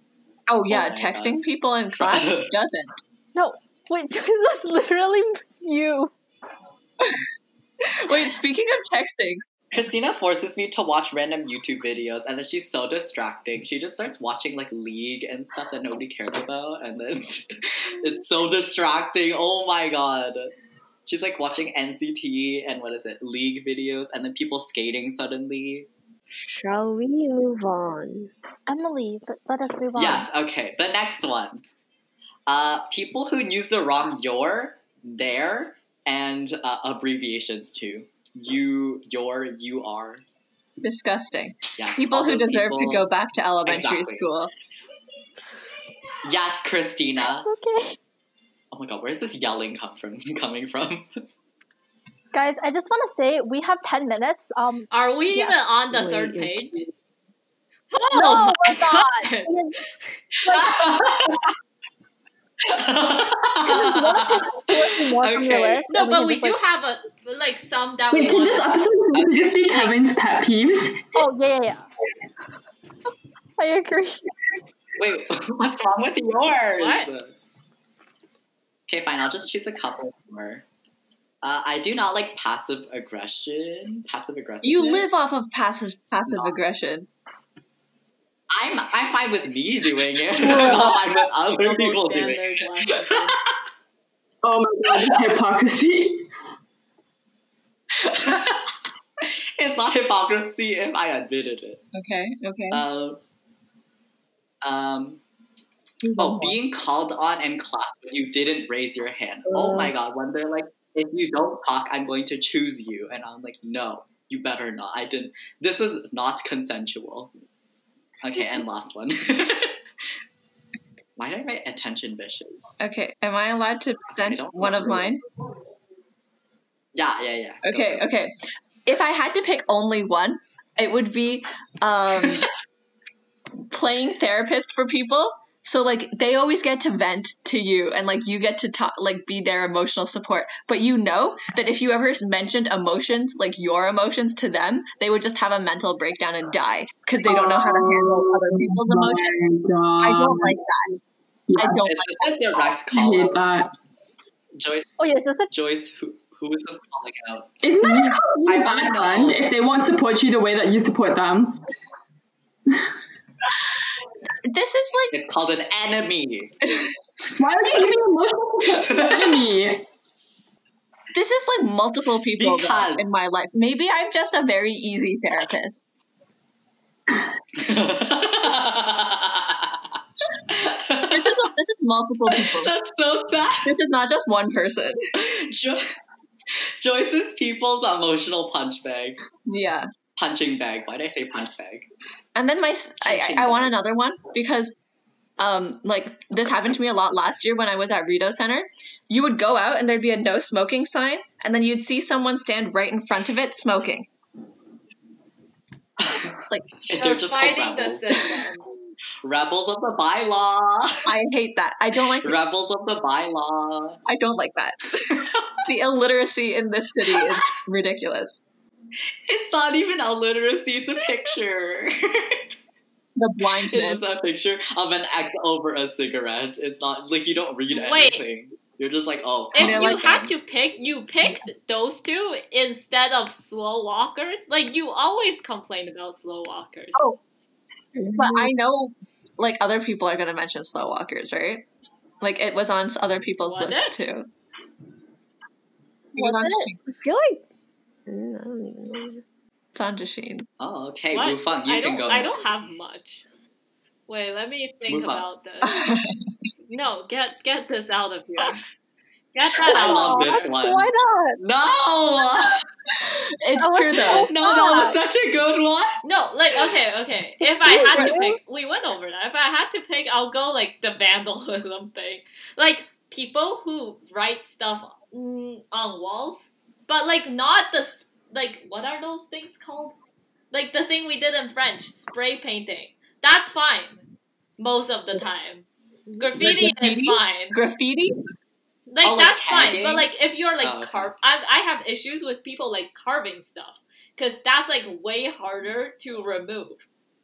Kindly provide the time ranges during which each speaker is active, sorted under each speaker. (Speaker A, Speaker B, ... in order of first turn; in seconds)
Speaker A: 0.5-3.0, 7.8-9.4, 40.8-44.5, 84.6-87.1, 101.9-102.8, 106.0-106.5, 122.8-125.2, 127.6-128.3, 128.9-132.5, 133.7-149.4, 150.0-151.0, 151.6-152.7, 164.4-165.2, 171.1-175.8, 181.1-182.7, 183.6-185.0, 189.5-189.9, 192.3-194.8, 195.4-204.1, 211.1-212.4, 214.1-218.4, 223.2-224.1, 229.6-230.3, 238.2-241.7, 242.2-244.3, 246.2-246.8, 249.7-250.5, 255.6-256.1, 263.1-264.3, 286.4-288.2
Speaker B: 0.7-1.4, 2.0-2.5, 9.7-20.5, 21.1-25.9, 30.0-31.6, 32.5-40.2, 41.8-43.1, 43.7-44.3, 46.2-47.5, 48.7-51.1, 60.5-61.5, 62.6-65.9, 69.1-69.6, 75.0-77.3, 78.9-80.7, 81.4-85.1, 86.3-86.6, 88.5-93.5, 97.9-98.8, 99.6-101.8, 102.7-103.2, 104.6-105.2, 106.2-117.3, 118.2-119.8, 121.2-122.7, 124.1-125.2, 127.0-128.0, 132.2-132.5, 151.8-153.4, 154.6-154.9, 155.5-157.6, 158.5-159.4, 165.1-166.6, 168.7-169.4, 172.4-173.1, 177.6-179.8, 180.5-181.5, 182.3-183.7, 185.2-185.9, 186.8-189.2, 190.2-191.9, 193.0-193.8, 206.0-208.4, 209.2-211.1, 212.2-214.0, 215.1-215.5, 217.1-217.4, 219.3-222.4, 223.6-230.2, 250.6-252.4, 254.9-255.2, 259.7-262.6, 264.2-265.9, 289.0-290.1, 290.6-291.1
Speaker C: 3.4-6.1, 28.7-30.3, 47.2-48.0, 52.3-55.8, 58.1-59.8, 60.5-61.4, 63.6-66.6, 71.2-71.8, 73.6-74.2, 155.0-155.5, 246.2-246.7, 259.6-261.4, 263.6-265.0, 267.4-268.4
Speaker D: 26.3-28.3, 55.9-56.9, 109.5-109.9, 238.0-238.5, 247.0-247.4, 248.1-249.2
Speaker E: 54.9-56.9, 57.9-59.5, 65.9-68.8, 69.7-70.0, 76.8-77.1, 91.6-93.4, 207.0-208.7, 227.7-228.2, 229.5-237.1, 243.4-244.1, 251.1-253.2, 254.1-255.9, 256.7-258.6, 259.4-260.5, 266.0-280.0, 280.5-284.0, 284.6-287.6, 288.9-296.8
Speaker F: 68.1-71.2, 90.5-91.0, 94.4-96.3, 147.3-150.6, 151.5-151.8, 152.9-153.7, 157.6-161.6, 167.4-169.8